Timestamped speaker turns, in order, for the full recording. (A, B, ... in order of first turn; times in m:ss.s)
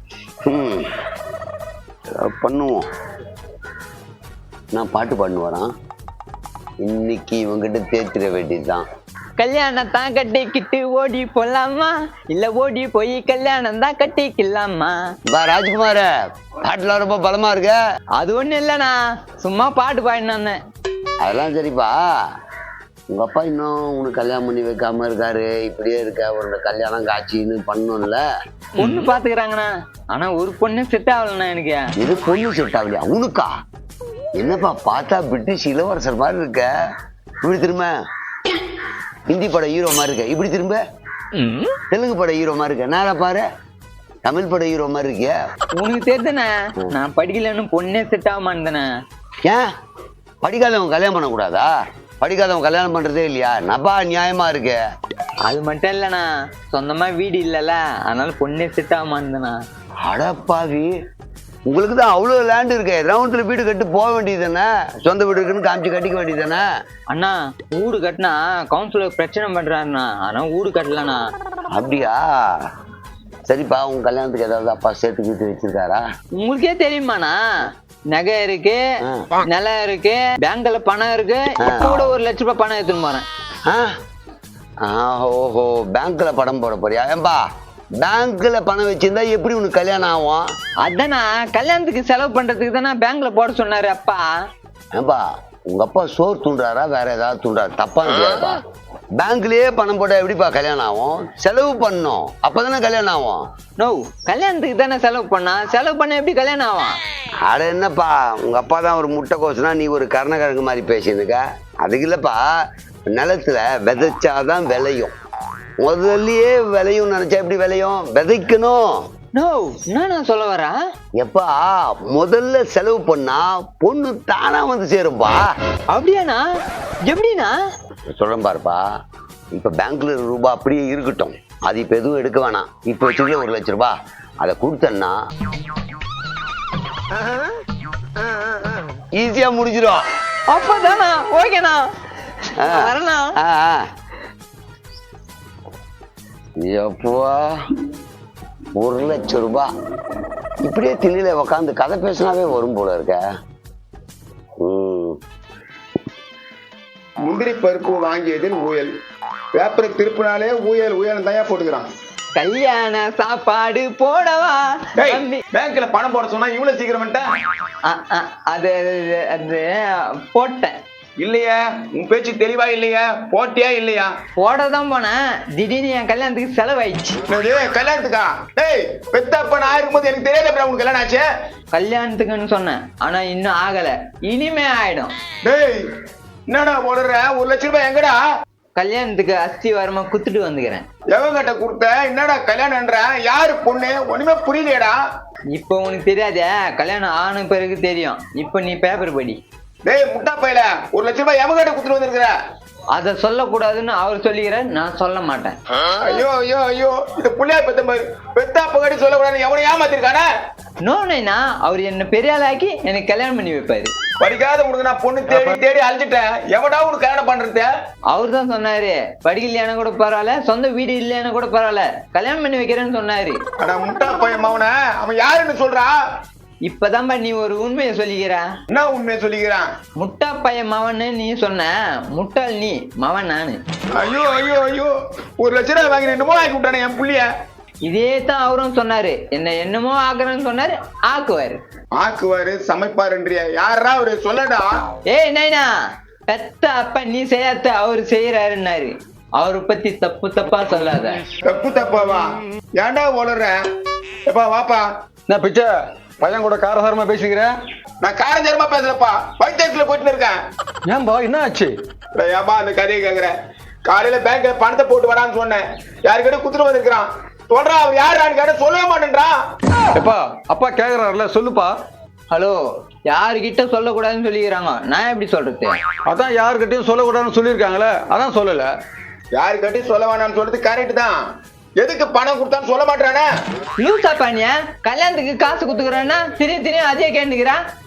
0:00.5-0:00.8 A
0:02.2-0:02.8 A
0:04.7-0:05.7 A
0:06.8-0:08.8 A
0:09.4-0:15.0 B
0:15.3-0:16.1 A
0:16.6-0:17.8 A
0:18.2-0:20.6 B
0:21.2-0:22.0 A
0:23.1-0:28.2 A
0:28.8-0:31.9 B
0:32.0-0:33.5 A
0:34.3-0:36.7 A
0:37.4-0:37.9 A
0:39.3-0:40.8 A
0:41.3-0:41.8 B
0:41.9-0:43.4 A
0:44.2-0:45.4 A
0:45.8-0:48.9 B
0:50.4-0:51.7 A
0:52.2-0:54.8 A
0:55.4-0:59.6 B
1:00.0-1:00.9 A
1:01.7-1:06.6 A
1:07.1-1:11.2 B
1:11.7-1:12.7 A
1:13.4-1:16.0 A
1:16.4-1:17.4 B
1:18.1-1:18.8 B
1:19.4-1:23.2 B
1:21.6-1:22.1 A
1:23.6-1:23.9 A
1:24.8-1:27.4 A
1:28.0-1:30.5 A
1:30.8-1:34.3 B
1:34.9-1:38.6 A
1:39.2-1:43.4 A
1:43.8-1:47.0 B
1:47.4-1:52.4 A
1:53.1-1:55.1 A
1:55.8-1:58.8 A
1:59.3-2:00.8 B
2:01.2-2:05.5 A
2:05.9-2:06.4 B
2:07.0-2:07.5 B
2:08.1-2:08.8 A
2:09.5-2:15.2 A
2:19.1-2:20.0 A
2:20.5-2:21.9 B
2:22.6-2:23.9 A
2:22.6-2:23.3 B
2:26.6-2:27.6 A
2:28.7-2:29.7 A
2:30.6-2:33.2 A
2:34.6-2:35.2 A
2:37.2-2:38.9 C
2:39.5-2:41.8 C
2:42.4-2:45.4 B
2:45.0-2:47.2 C
2:47.8-2:49.7 B
2:50.3-2:50.7 B
2:51.2-2:54.1 C
2:54.4-2:57.2 B
2:57.3-3:01.2 C
3:01.7-3:05.1 B
3:05.4-3:05.8 C
3:06.5-3:08.2 C
3:08.8-3:10.8 B
3:11.1-3:14.9 C
3:15.5-3:19.4 B
3:19.8-3:22.3 C
3:22.9-3:25.6 B
3:26.0-3:30.2 C
3:30.8-3:33.9 B
3:34.2-3:37.7 C
3:35.3-3:35.6 D
3:38.1-3:43.4 B
3:43.6-3:45.9 C
3:46.6-3:48.4 B
3:48.7-3:49.6 C
3:50.0-3:53.6 B
3:53.9-3:57.3 C
3:57.8-4:01.6 B
4:02.0-4:04.8 C
4:05.1-4:05.7 B
4:06.3-4:11.2 B
4:11.4-4:12.2 C
4:12.8-4:13.5 C
4:14.2-4:14.8 C
4:15.3-4:15.7 D
4:16.2-4:17.5 D
4:18.0-4:20.4 C
4:20.8-4:21.7 D
4:22.2-4:23.3 C
4:23.8-4:29.3 C
4:29.9-4:31.7 D
4:32.3-4:35.8 B
4:36.1-4:38.7 D
4:39.3-4:41.1 C
4:41.8-4:43.2 C
4:43.8-4:47.6 B